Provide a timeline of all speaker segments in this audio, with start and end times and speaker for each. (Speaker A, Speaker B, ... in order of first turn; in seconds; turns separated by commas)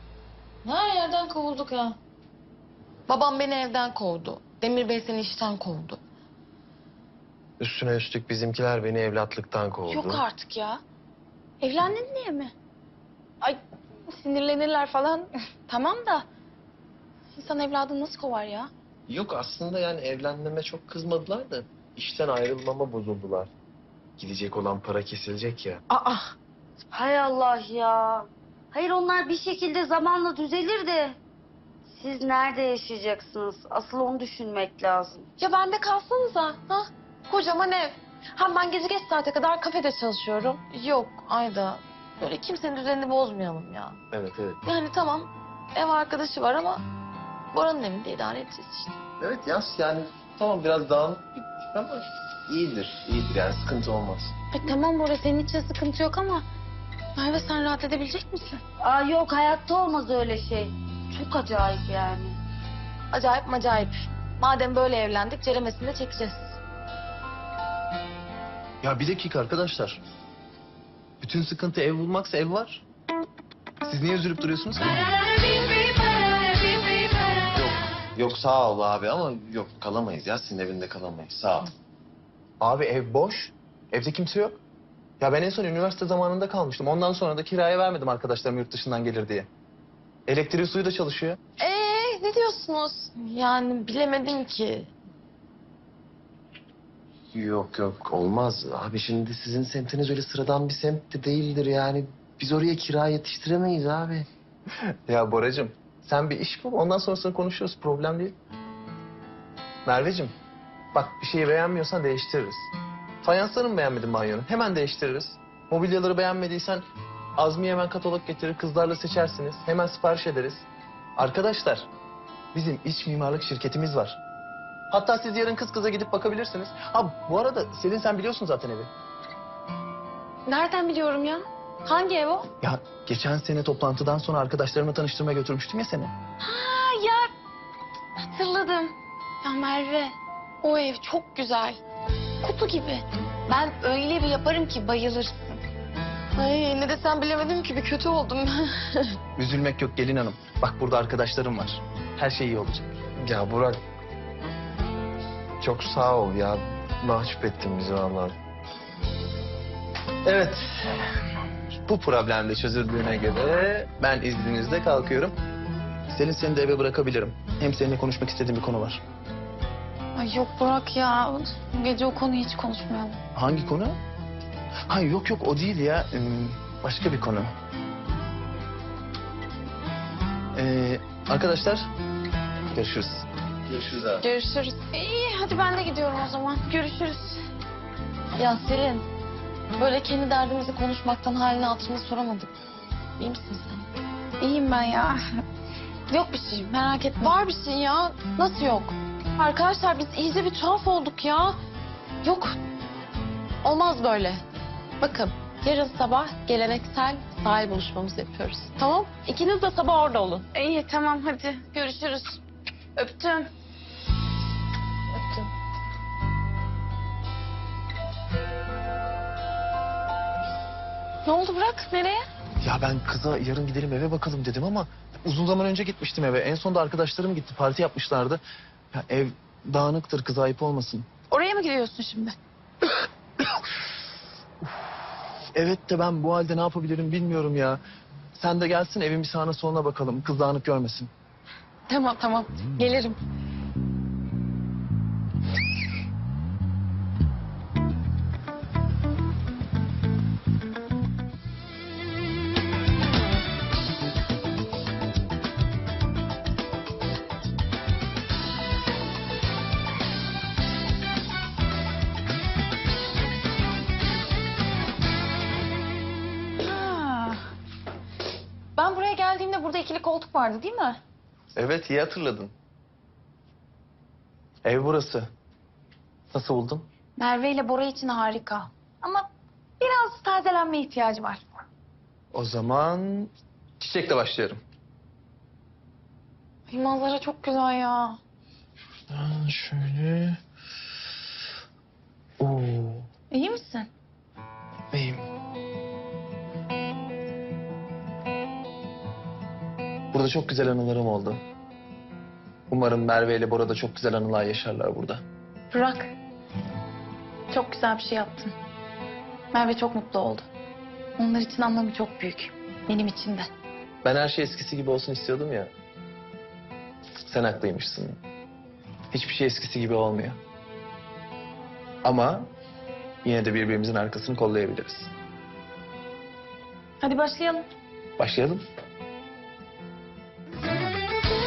Speaker A: 0.6-2.0, Speaker A: 3.1-6.0, Speaker B: 7.6-10.2, Speaker C: 9.9-10.8, Speaker C: 11.6-12.5, Speaker C: 13.4-16.3, Speaker C: 17.4-18.7, Speaker B: 19.1-23.5, Speaker B: 24.2-25.8, Speaker A: 25.9-26.3, Speaker D: 26.9-31.2, Speaker D: 31.9-35.3, Speaker A: 35.4-44.0, Speaker B: 44.1-44.6, Speaker A: 44.6-46.8, Speaker A: 47.5-49.0, Speaker B: 49.2-54.3, Speaker C: 54.5-56.5, Speaker C: 57.2-58.6, Speaker D: 58.8-62.4, Speaker A: 63.1-66.6, Speaker E: 68.8-70.0, Speaker E: 71.2-72.8, Speaker E: 73.8-75.0, Speaker A: 75.1-77.5, Speaker B: 77.6-81.7, Speaker E: 82.6-84.6, Speaker E: 85.2-89.5, Speaker E: 90.3-91.4, Speaker A: 91.6-94.9, Speaker B: 97.3-104.3, Speaker E: 104.8-108.4, Speaker E: 109.9-110.3, Speaker E: 110.9-112.7, Speaker E: 113.2-116.8, Speaker E: 117.4-120.7, Speaker E: 121.2-121.9, Speaker E: 122.5-124.2, Speaker E: 124.9-128.9, Speaker C: 130.5-132.3, Speaker A: 131.9-132.5, Speaker E: 132.6-136.1, Speaker C: 136.4-137.3, Speaker C: 138.2-141.8, Speaker C: 142.4-145.6, Speaker A: 146.3-149.2, Speaker E: 149.4-152.9, Speaker B: 153.2-153.8, Speaker B: 155.6-158.3, Speaker E: 160.3-161.0, Speaker E: 161.8-165.3, Speaker E: 166.1-169.0, Speaker C: 170.2-173.2, Speaker E: 173.3-174.0, Speaker E: 174.9-177.5, Speaker E: 180.5-181.9, Speaker E: 182.7-183.3, Speaker A: 184.2-184.9, Speaker C: 184.8-187.4, Speaker A: 188.4-189.1, Speaker A: 189.8-192.5, Speaker A: 193.2-193.9, Speaker C: 194.4-195.4, Speaker C: 196.1-197.2, Speaker A: 196.9-201.6, Speaker A: 202.2-202.6, Speaker A: 203.6-204.4, Speaker A: 205.0-210.5, Speaker C: 210.6-211.7, Speaker A: 211.6-212.4, Speaker C: 213.0-213.4, Speaker C: 221.2-222.2, Speaker E: 222.6-228.4, Speaker E: 228.9-231.1, Speaker C: 231.3-232.4, Speaker E: 235.5-237.8, Speaker E: 238.3-241.1, Speaker C: 241.9-243.2, Speaker C: 266.6-267.5, Speaker C: 268.8-271.0, Speaker E: 271.6-272.5, Speaker E: 274.6-275.3, Speaker E: 276.3-276.9, Speaker C: 277.2-279.3, Speaker C: 279.8-281.4, Speaker E: 282.3-284.6, Speaker C: 286.7-288.2, Speaker E: 289.1-290.4, Speaker E: 292.4-293.1, Speaker C: 293.3-293.9, Speaker E: 294.9-295.3, Speaker E: 300.1-301.4, Speaker E: 302.7-305.2, Speaker C: 305.7-306.1, Speaker C: 307.5-308.5, Speaker C: 309.5-310.5, Speaker C: 311.2-313.5, Speaker E: 314.0-315.7, Speaker E: 317.2-318.2, Speaker E: 319.1-320.4, Speaker E: 322.0-322.5, Speaker E: 323.2-325.1, Speaker C: 327.0-327.7, Speaker E: 328.2-328.6